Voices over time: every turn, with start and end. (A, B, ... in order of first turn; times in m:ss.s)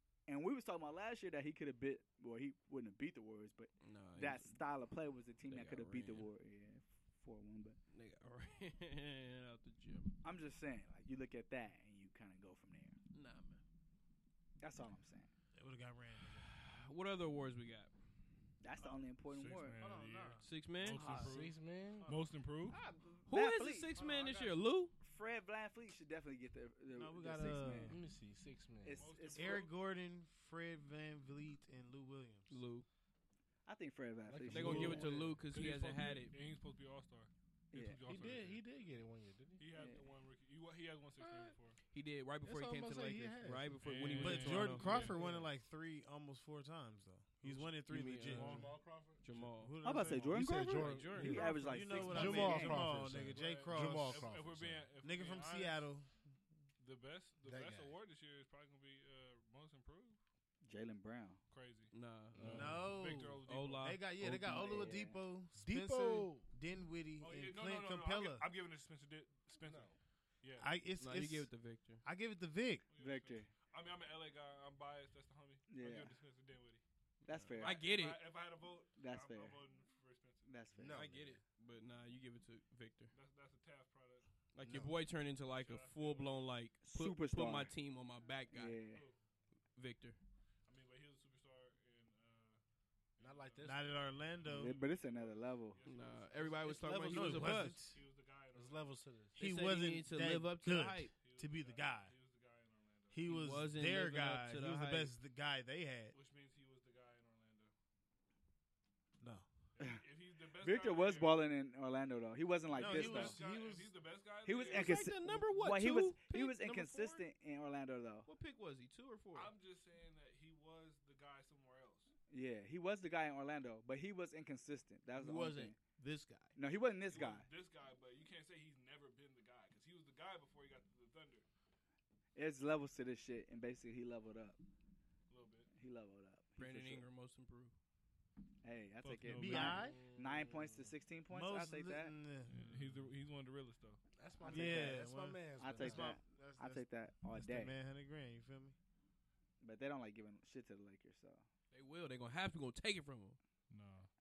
0:00.3-0:07.8 A
0:03.8-0:04.6 B
0:05.5-0:06.3 B
0:07.9-0:10.1 B
0:10.2-0:13.0 A
0:13.1-0:13.6 B
0:14.6-0:15.3 A
0:15.5-0:16.5 C
0:16.4-0:17.9 B
0:18.6-0:19.8 A
0:19.3-0:22.8 D
0:19.7-0:20.5 C
0:20.4-0:21.3 B
0:20.9-0:21.3 A
0:21.1-0:22.1 E
0:22.0-0:22.3 C
0:22.7-0:23.9 A
0:23.3-0:24.9 B
0:23.9-0:24.6 D
0:25.0-0:28.0 A
0:26.9-0:28.0 C
0:27.8-0:29.1 E
0:28.8-0:29.7 A
0:29.0-0:29.7 D
0:29.3-0:32.5 C
0:32.5-0:32.9 B
0:33.6-0:35.1 A
0:34.3-0:35.4 E
0:34.5-0:36.3 B
0:34.7-0:38.6 D
0:37.7-0:38.0 A
0:38.0-0:39.7 E
0:39.6-0:41.8 D
0:39.7-0:40.0 A
0:41.2-0:41.5 E
0:41.9-0:45.1 B
0:42.4-0:43.8 E
0:43.8-0:45.5 D
0:44.1-0:48.7 C
0:47.8-0:49.8 B
0:48.2-0:49.2 E
0:48.3-0:48.7 D
0:49.6-0:50.5 C
0:49.8-0:53.0 A
0:50.3-0:54.9 E
0:50.6-0:52.6 B
0:51.4-0:54.4 C
0:53.1-0:55.9 D
0:55.0-0:56.2 C
0:56.8-1:00.2 D
0:57.4-0:58.0 E
1:00.6-1:01.4 A
1:01.5-1:04.0 D
1:01.9-1:04.8 B
1:02.4-1:02.9 E
1:02.4-1:08.5 C
1:04.2-1:04.9 E
1:04.6-1:05.2 A
1:05.5-1:06.5 E
1:07.2-1:10.7 D
1:09.6-1:10.0 E
1:10.6-1:11.5 C
1:11.0-1:12.0 B
1:12.0-1:12.8 C
1:12.9-1:16.8 D
1:13.0-1:13.5 A
1:15.7-1:16.1 A
1:17.2-1:17.8 A
1:17.3-1:18.2 B
1:17.6-1:20.5 D
1:19.0-1:19.6 A
1:20.4-1:21.0 A
1:20.7-1:21.4 E
1:20.9-1:23.1 B
1:23.1-1:24.3 D
1:24.5-1:28.8 B
1:24.6-1:25.0 E
1:25.5-1:26.4 D
1:26.8-1:27.7 A
1:28.5-1:29.0 A
1:29.8-1:30.2 B
1:30.7-1:32.6 D
1:33.2-1:39.0 D
1:33.2-1:34.6 E
1:33.6-1:34.8 C
1:34.6-1:35.8 A
1:35.8-1:37.8 B
1:36.9-1:38.0 C
1:38.5-1:39.4 E
1:39.4-1:41.1 B
1:39.4-1:42.1 C
1:41.2-1:43.4 D
1:43.1-1:46.1 C
1:43.2-1:45.1 B
1:46.1-1:47.7 D
1:49.2-1:49.4 C
1:49.7-1:51.5 D
1:50.6-1:53.4 A
1:52.7-1:53.9 C
1:52.7-1:55.1 D
1:54.4-1:58.3 A
1:54.6-1:57.2 B
1:58.2-1:59.5 B
1:59.3-2:02.1 D
2:02.3-2:05.8 A
2:05.2-2:06.6 B
2:06.6-2:07.5 A
2:07.1-2:11.4 D
2:12.3-2:14.6 A
2:15.3-2:15.7 D
2:15.7-2:17.1 A
2:16.6-2:17.7 B
2:18.6-2:22.1 A
2:19.0-2:19.7 D
2:19.3-2:20.0 C
2:19.5-2:20.9 E
2:21.3-2:22.6 C
2:22.5-2:24.0 D
2:24.2-2:26.2 E
2:24.4-2:25.0 A
2:24.4-2:28.8 C
2:25.6-2:27.7 A
2:29.6-2:31.4 A
2:31.7-2:33.4 B
2:33.7-2:34.1 D